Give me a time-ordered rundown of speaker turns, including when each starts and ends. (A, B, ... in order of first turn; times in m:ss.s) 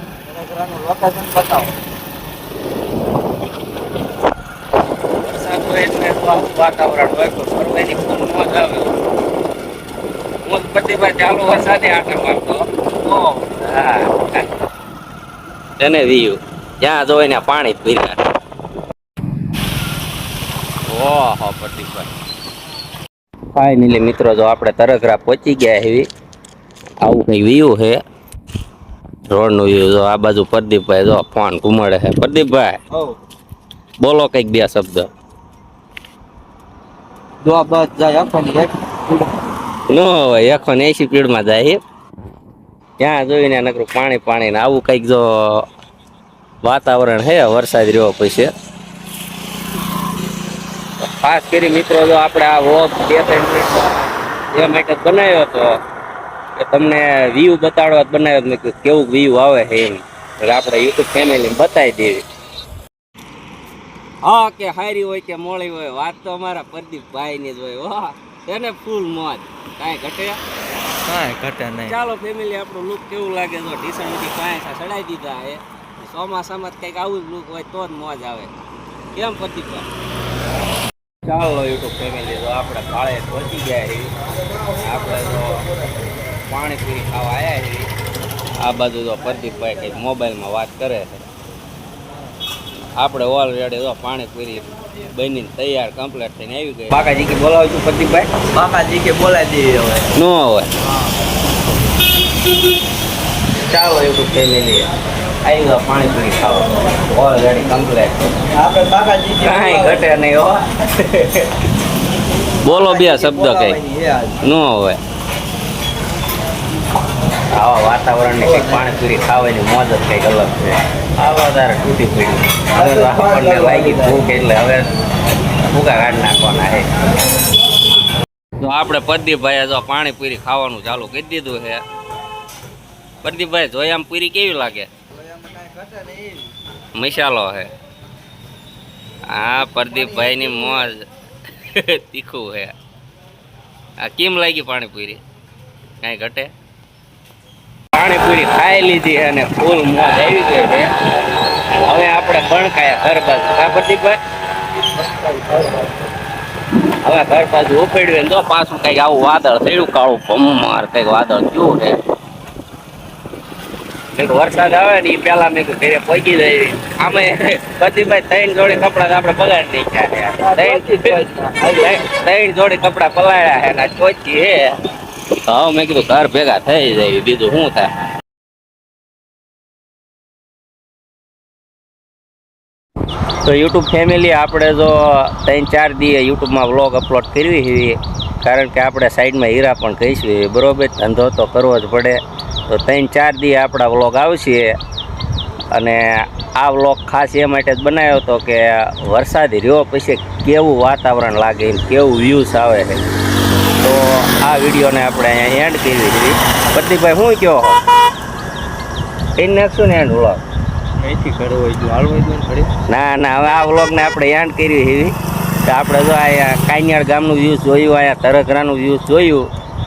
0:00.2-0:01.7 A
0:05.2-0:08.9 B
0:10.4-0:14.4 B
0:15.8-0:18.2 B
0:20.9-0:22.1 B
0:23.5-0:26.1 B
0:27.0-0:28.0 B
0:29.3-0:32.8 B
0:34.0-0:35.1 B
0:37.4-0:39.3 A
0:39.9-0:41.8 B
0:43.0-0:45.6 B
0:46.6-0:48.5 B
0:51.0-0:55.7 B
0:56.6-1:02.2 B
1:04.2-1:10.4 B
1:11.0-1:12.0 A
1:11.8-1:18.5 B
1:19.1-1:19.9 B
1:21.2-1:24.1 B
1:24.7-1:25.6 B
1:26.5-1:27.9 B
1:28.6-1:31.2 B
1:33.0-1:38.3 B
1:38.5-1:40.1 A
1:40.1-1:40.7 B
1:43.7-1:44.9 B
1:45.4-1:48.3 B
1:48.4-1:50.1 A
1:49.4-1:51.7 B
1:52.6-1:53.8 B
1:52.6-1:54.4 A
1:54.4-1:55.0 B
1:57.5-2:04.9 B
2:02.7-2:04.2 A
2:05.5-2:06.9 B
2:08.6-2:11.8 B
2:13.2-2:14.9 B
2:15.1-2:16.5 A
2:17.0-2:17.7 B
2:19.3-2:21.1 B
2:19.7-2:20.8 A
2:21.6-2:22.7 B
2:24.0-2:25.2 B
2:26.0-2:26.5 B
2:27.9-2:30.9 B
2:31.8-2:34.2 B
2:35.0-2:35.9 A
2:37.0-2:41.9 B
2:44.2-2:54.7 B
2:50.4-2:51.9 A
2:55.4-2:57.9 B
3:03.4-3:12.2 B
3:12.7-3:14.8 B
3:15.7-3:23.0 B
3:23.8-3:27.8 B
3:29.4-3:30.4 B
3:31.0-3:32.7 A
3:32.9-3:35.1 B
3:35.6-3:39.5 B